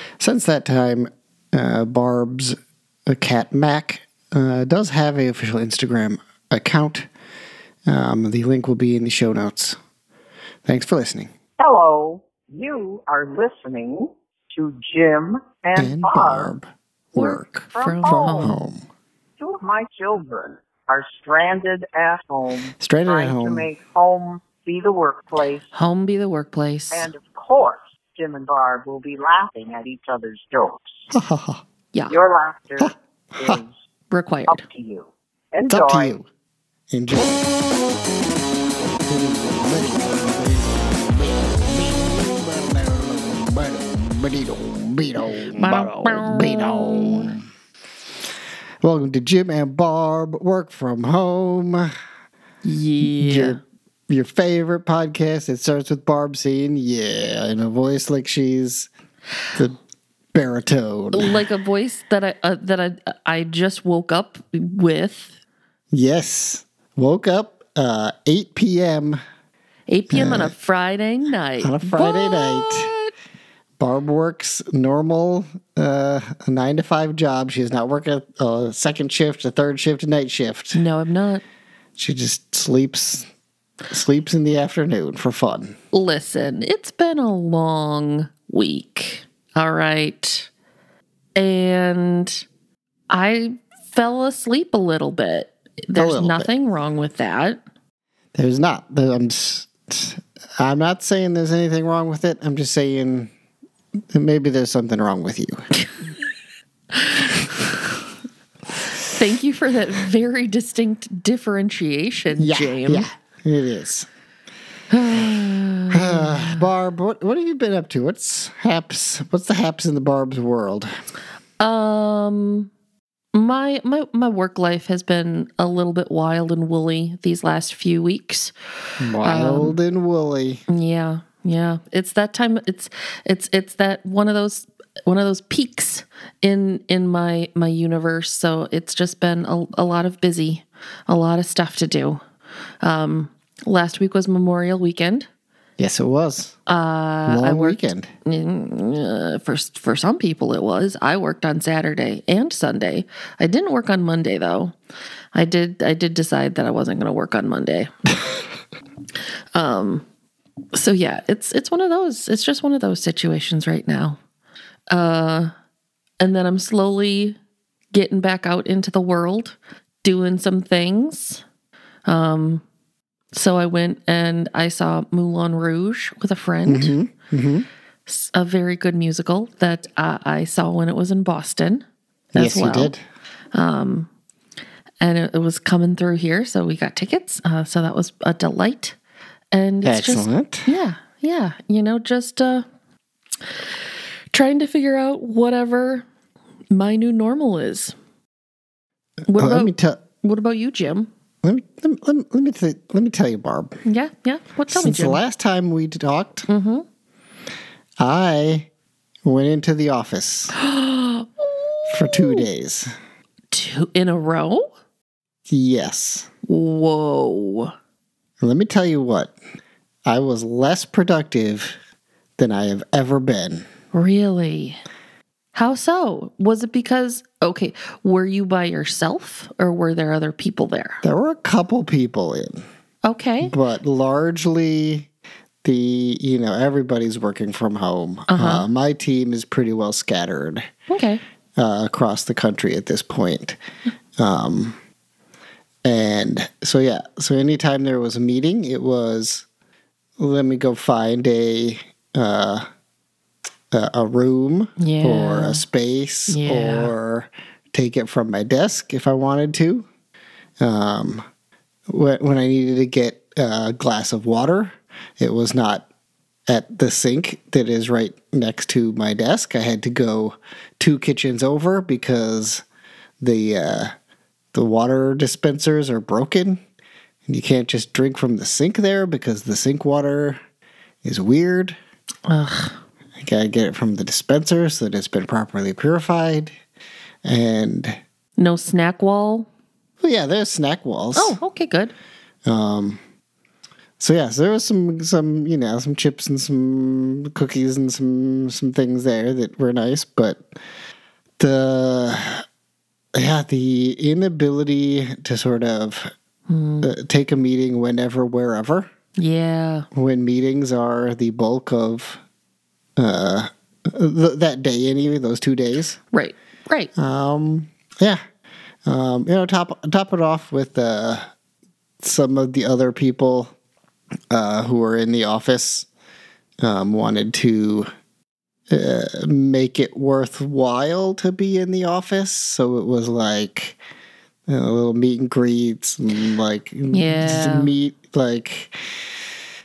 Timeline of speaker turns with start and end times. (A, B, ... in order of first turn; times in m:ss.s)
0:00.2-0:02.6 A
0:03.1-0:07.1 A
0:07.9-0:09.8 A
0:10.6-0:11.3 A
0:11.6-0:16.5 B
0:15.8-0:18.8 A
0:17.2-0:18.5 B
0:17.7-0:18.6 C
0:19.4-0:25.6 B
0:22.8-0:23.7 A
0:25.7-0:27.1 C
0:26.9-0:30.8 B
0:31.1-0:31.6 A
0:32.1-0:33.7 B
0:32.8-0:33.6 A
0:34.1-0:34.6 C
0:34.5-0:36.2 B
0:35.7-0:36.3 A
0:36.9-0:37.5 A
0:39.0-0:47.4 A
0:45.5-0:47.3 C
0:48.8-0:51.9 A
0:52.6-0:53.6 C
0:53.0-0:58.9 A
1:00.3-1:01.4 A
1:01.1-1:05.3 C
1:05.9-1:09.2 A
1:09.9-1:13.1 C
1:10.1-1:10.5 A
1:11.6-1:12.9 A
1:13.8-1:20.8 A
1:20.7-1:21.4 C
1:22.0-1:23.3 A
1:23.9-1:25.8 A
1:25.9-1:30.5 C
1:31.4-1:32.4 C
1:33.1-1:37.6 C
1:36.0-1:36.5 A
1:38.3-1:43.3 A
1:44.1-1:45.6 A
1:46.9-1:47.8 C
1:49.1-1:53.1 C
1:52.4-1:54.1 A
1:54.9-1:56.6 C
1:55.9-2:00.9 A
2:01.6-2:02.7 C
2:03.3-2:08.5 C
2:09.0-2:10.6 A
2:09.2-2:09.8 C
2:10.7-2:22.2 C
2:22.8-2:25.3 C
2:25.8-2:26.6 A
2:26.7-2:34.8 C
2:27.3-2:28.1 A
2:35.3-2:37.9 C
2:39.5-2:40.0 C
2:40.7-2:44.2 C
2:44.9-2:45.5 C
2:46.2-2:47.4 C
2:47.9-2:51.4 C
2:52.0-2:52.6 C
2:53.3-2:56.9 C
2:56.6-2:57.7 A
2:58.1-3:02.9 C
3:02.4-3:03.0 A
3:03.5-3:04.1 C
3:05.0-3:09.0 C
3:09.5-3:12.6 C
3:09.8-3:10.7 A
3:14.3-3:16.0 C
3:16.7-3:17.9 C
3:19.3-3:21.1 C
3:19.4-3:20.0 A
3:21.4-3:23.8 A
3:23.8-3:25.2 C
3:24.7-3:26.5 A
3:26.5-3:26.8 C
3:28.0-3:28.7 A
3:29.2-3:30.5 A
3:30.5-3:32.5 C
3:31.9-3:32.9 A
3:33.5-3:34.7 C
3:35.5-3:36.3 A
3:36.4-3:37.7 C
3:38.4-3:39.4 A
3:40.0-3:41.8 A
3:42.4-3:43.7 A
3:43.9-3:44.8 C
3:45.5-3:51.0 C
3:51.0-3:52.6 A
3:53.0-3:53.5 C
3:53.4-3:55.1 A
3:55.6-4:00.7 A
3:58.3-3:58.6 C
4:00.9-4:01.2 C
4:01.6-4:03.6 A
4:04.2-4:04.8 A
4:05.8-4:09.4 A
4:10.2-4:12.7 A
4:13.7-4:19.9 A
4:14.8-4:15.6 C
4:16.3-4:16.9 C
4:20.6-4:21.2 A
4:21.9-4:25.8 A
4:26.5-4:32.6 A
4:33.2-4:33.9 A
4:34.5-4:36.6 A
4:37.3-4:40.4 A
4:41.0-4:41.8 A
4:42.3-4:42.8 C
4:43.2-4:46.5 A
4:47.2-4:48.0 A
4:48.4-4:49.5 C
4:50.0-4:51.4 A
4:51.1-4:51.9 C
4:52.4-4:53.0 A
4:54.0-5:00.5 A
5:01.4-5:02.4 A
5:03.1-5:06.1 A
5:06.5-5:06.9 C
5:06.8-5:08.9 A
5:09.2-5:09.9 C
5:09.9-5:12.2 A
5:13.0-5:16.0 A
5:16.1-5:16.9 C
5:17.0-5:18.2 A
5:18.8-5:21.3 A
5:22.0-5:23.5 A
5:24.3-5:25.9 A
5:26.6-5:27.9 A
5:28.7-5:33.8 A
5:34.5-5:38.7 A
5:36.9-5:37.7 C